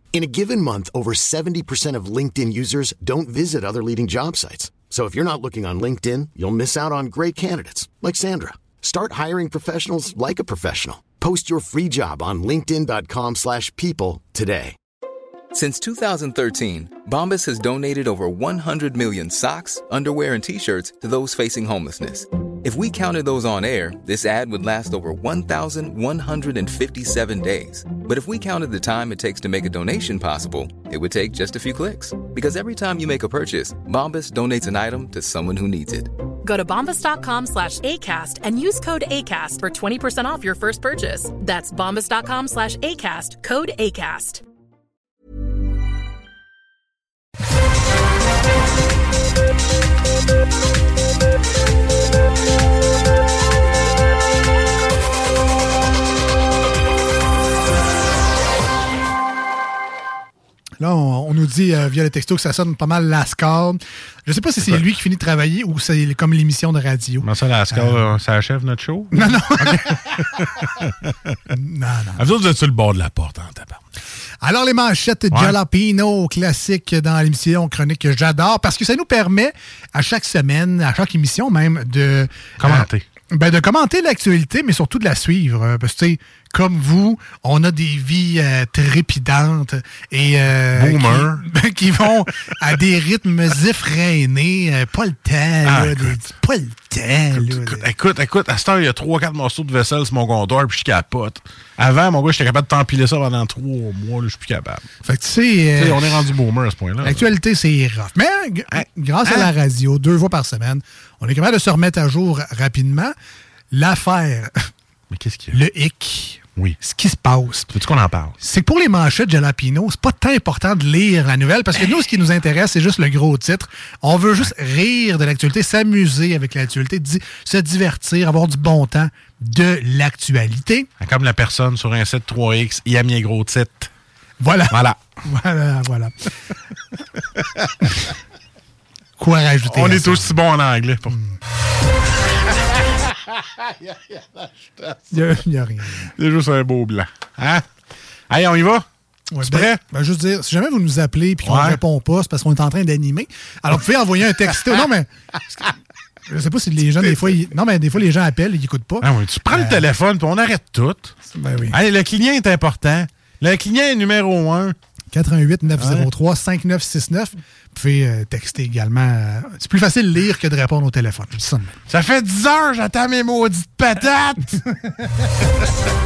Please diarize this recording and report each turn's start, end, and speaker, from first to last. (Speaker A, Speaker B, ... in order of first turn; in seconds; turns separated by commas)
Speaker A: 0.1-14.8, Speaker B: 15.5-36.1, Speaker C: 36.5-44.4, Speaker D: 60.8-68.0, Speaker E: 67.2-71.4, Speaker D: 69.1-70.0, Speaker D: 71.5-72.3, Speaker E: 72.2-73.8, Speaker D: 74.4-97.9, Speaker E: 75.3-75.6, Speaker E: 82.6-83.0, Speaker E: 90.7-91.5, Speaker E: 95.7-96.2, Speaker E: 97.3-104.9, Speaker D: 105.0-106.3, Speaker E: 105.8-107.3, Speaker D: 107.0-113.1, Speaker E: 108.7-109.5, Speaker D: 113.7-114.5, Speaker E: 115.1-115.6, Speaker D: 115.5-117.7, Speaker E: 117.7-118.4, Speaker D: 118.4-130.9, Speaker E: 131.0-133.9, Speaker D: 134.4-136.1, Speaker E: 134.7-135.0, Speaker D: 139.2-140.4, Speaker E: 139.6-141.2, Speaker D: 141.1-141.3, Speaker E: 142.8-145.0, Speaker D: 145.1-146.1, Speaker E: 146.2-147.6, Speaker E: 148.3-148.8, Speaker D: 149.3-155.7, Speaker E: 149.4-149.8, Speaker E: 151.4-151.8, Speaker D: 156.3-159.9, Speaker E: 159.0-161.2, Speaker D: 161.3-161.8, Speaker E: 161.7-164.8, Speaker D: 165.1-171.7, Speaker E: 165.8-166.1, Speaker E: 171.9-175.8